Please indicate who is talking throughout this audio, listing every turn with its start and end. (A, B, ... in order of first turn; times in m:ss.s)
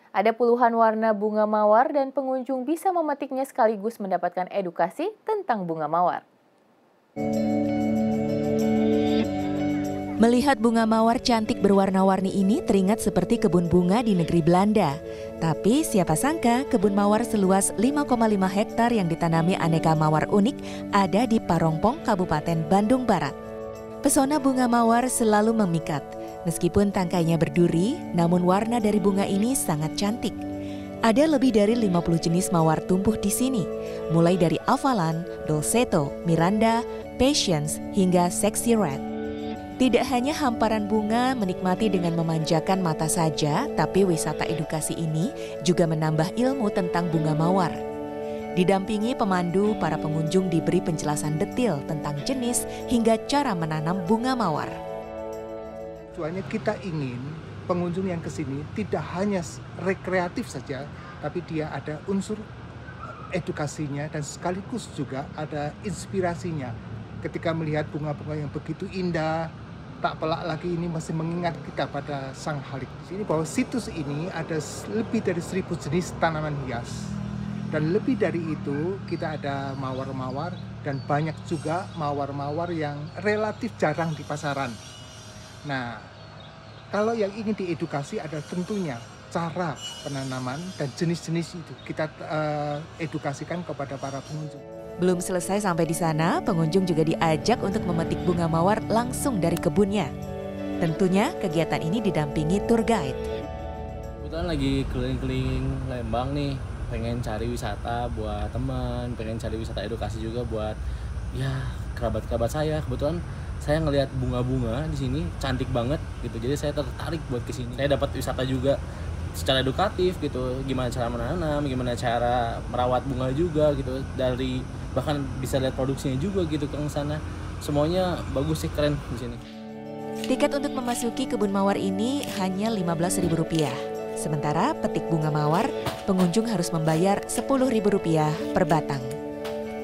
0:00.2-0:06.2 A
0:10.2-0:23.4 B
0:24.0-0:30.4 B
0:31.0-0:39.0 B
0:39.8-0:47.8 B
0:48.6-0:54.7 B
0:56.1-1:02.4 C
1:03.3-1:06.7 C
1:07.2-1:09.5 C
1:10.0-1:17.2 C
1:17.7-1:24.8 C
1:25.6-1:26.0 C
1:26.9-1:34.6 C
1:35.0-1:40.1 B
1:40.8-1:43.2 B
1:44.2-1:50.8 D
1:51.3-1:58.8 D
1:59.4-2:09.4 D
2:10.3-2:19.1 B